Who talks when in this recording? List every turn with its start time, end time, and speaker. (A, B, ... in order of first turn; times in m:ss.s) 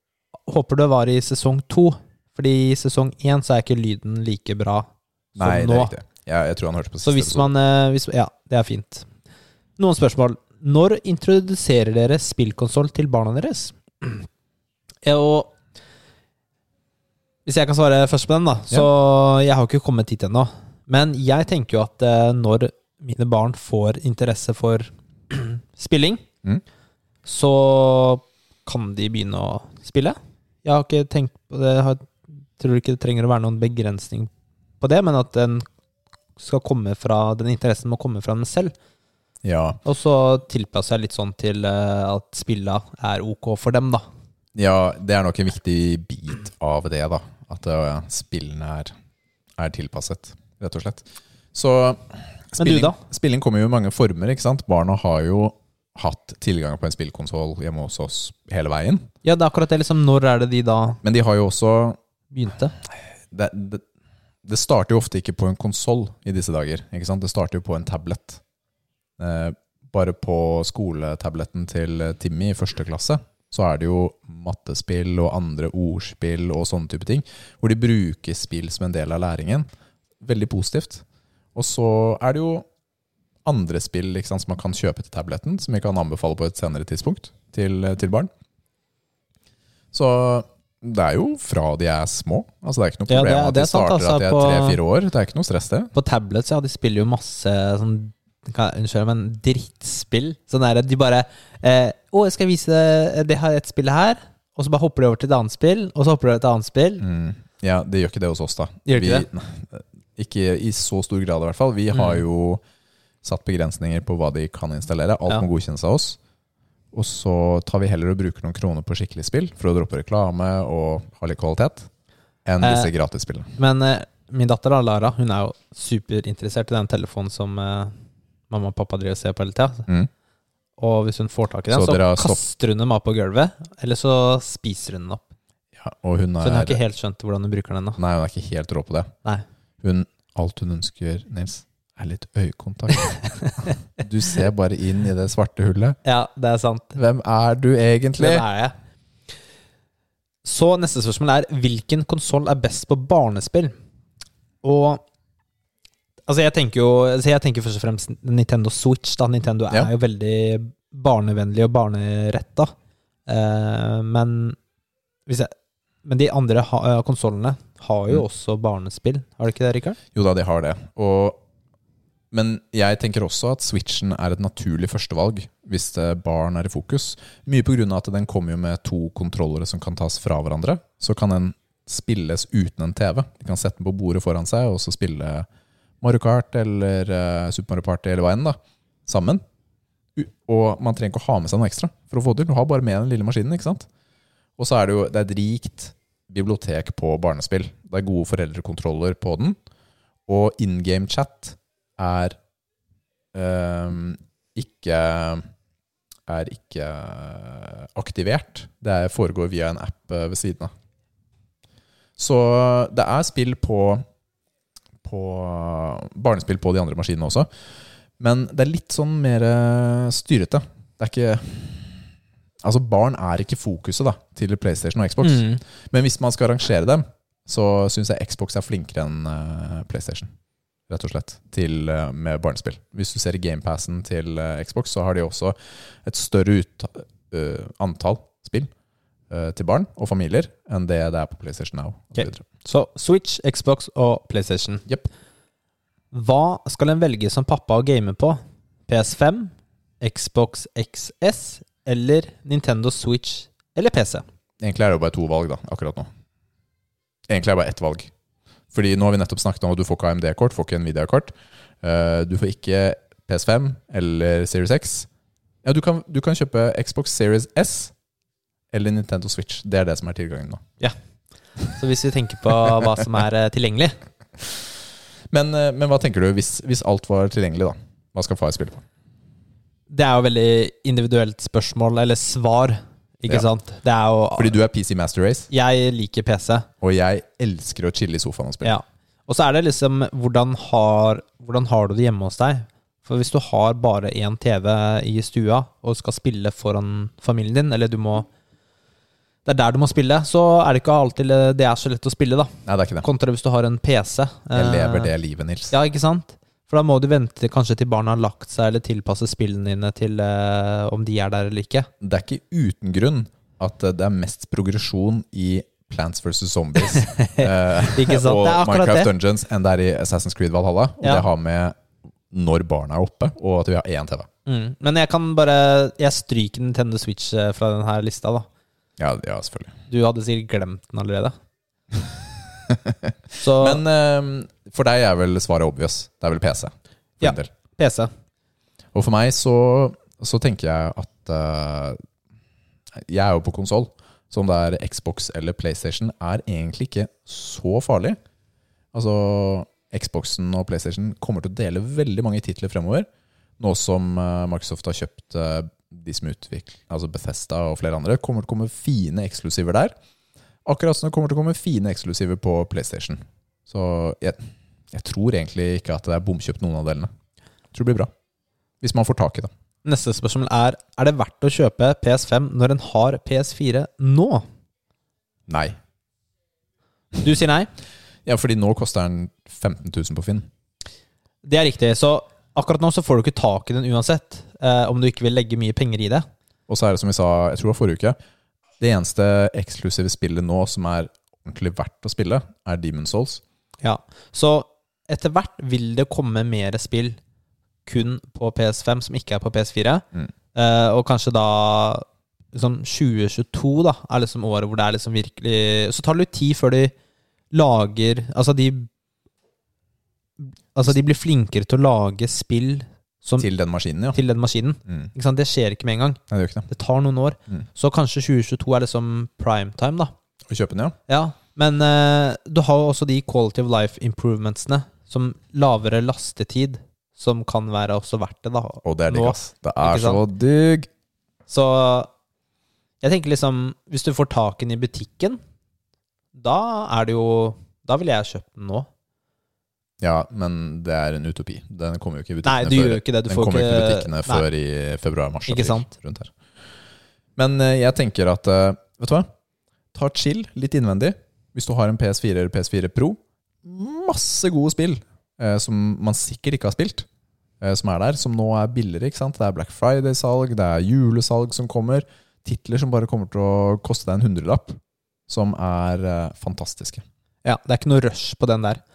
0:00.5-0:05.9 A
0:05.4-0:07.5 B
0:07.0-0:09.1 A
0:09.8-0:14.3 A
0:15.0-0:15.5 A
0:17.5-0:26.2 A
0:27.2-0:34.3 A
0:34.8-0:35.6 A
0:36.4-0:38.7 A
0:39.4-0:39.8 B
0:39.8-0:44.0 A
0:44.6-0:48.9 B
0:49.6-0:59.1 B
0:52.6-0:53.0 A
0:59.2-1:01.0 A
1:01.0-1:02.0 B
1:02.3-1:02.8 A
1:03.3-1:03.8 B
1:04.4-1:08.4 B
1:09.2-1:19.6 B
1:20.2-1:21.0 B
1:21.6-1:22.6 B
1:23.4-1:28.3 B
1:29.9-1:35.9 B
1:33.1-1:34.8 A
1:36.0-1:47.0 A
1:47.0-1:52.6 B
1:48.9-1:49.3 A
1:51.9-1:52.2 A
1:53.2-1:56.2 B
1:56.9-2:01.9 B
2:02.5-2:03.5 B
2:02.6-2:02.9 A
2:03.6-2:07.9 A
2:08.5-2:09.9 A
2:10.8-2:15.3 A
2:11.7-2:12.4 B
2:15.8-2:16.8 B
2:16.4-2:18.0 A
2:18.0-2:19.1 B
2:19.8-2:26.0 B
2:26.0-2:27.0 A
2:27.0-2:28.4 B
2:28.2-2:28.8 A
2:30.4-2:33.7 A
2:34.6-2:35.0 A
2:36.3-2:42.7 A
2:43.3-2:44.6 A
2:45.3-2:45.5 A
2:46.0-2:50.0 A
2:50.1-2:51.4 B
2:52.3-3:05.5 B
3:06.0-3:09.4 B
3:10.2-3:13.9 B
3:14.6-3:19.6 B
3:20.3-3:22.4 B
3:23.3-3:25.4 B
3:26.3-3:30.7 B
3:32.2-3:34.0 B
3:35.0-3:37.5 B
3:38.2-3:42.0 B
3:42.6-3:50.3 B
3:45.2-3:45.6 A
3:50.9-3:58.7 B
3:59.3-4:02.4 B
4:02.1-4:04.9 A
4:06.1-4:14.2 A
4:14.6-4:16.1 B
4:17.3-4:18.1 B
4:18.7-4:25.1 B
4:25.6-4:27.9 B
4:28.7-4:30.6 B
4:31.7-4:34.0 A
4:35.3-4:38.8 B
4:39.9-4:44.6 A
4:44.4-4:45.5 B
4:45.5-4:46.7 A
4:46.8-4:48.8 B
4:48.6-4:58.3 A
4:59.5-5:02.5 A
5:02.6-5:03.1 B
5:03.0-5:05.1 A
5:04.5-5:05.7 B
5:05.7-5:11.9 A
5:12.0-5:21.8 B
5:16.9-5:19.1 A
5:22.3-5:24.3 B
5:24.5-5:28.5 A
5:29.0-5:29.8 B
5:29.9-5:31.4 A
5:32.7-5:37.5 B
5:33.4-5:33.8 A
5:37.2-5:38.1 A
5:38.9-5:42.0 B
5:42.9-5:48.2 B
5:48.9-5:53.1 B
5:53.6-5:59.9 B
6:00.6-6:04.4 B
6:04.9-6:07.1 B
6:07.7-6:08.1 B
6:08.8-6:09.5 B
6:09.8-6:14.4 A
6:15.5-6:15.8 B
6:17.2-6:17.7 A
6:18.3-6:20.5 B
6:21.4-6:26.3 A
6:26.7-6:28.2 B
6:28.8-6:33.4 B
6:33.8-6:37.2 A
6:37.9-6:46.9 A
6:47.5-6:48.9 A
6:50.4-6:53.5 A
6:53.4-6:54.2 B
6:54.1-7:00.1 A
6:56.3-6:56.7 B
7:00.5-7:01.0 B
7:01.1-7:10.2 A
7:08.8-7:10.9 B
7:11.5-7:12.1 A
7:13.0-7:15.4 A
7:16.4-7:18.9 A
7:20.0-7:26.3 B
7:22.4-7:24.4 A
7:25.5-7:25.9 A
7:27.4-7:29.3 B
7:29.9-7:37.1 B
7:37.6-7:47.0 B
7:47.4-7:48.8 A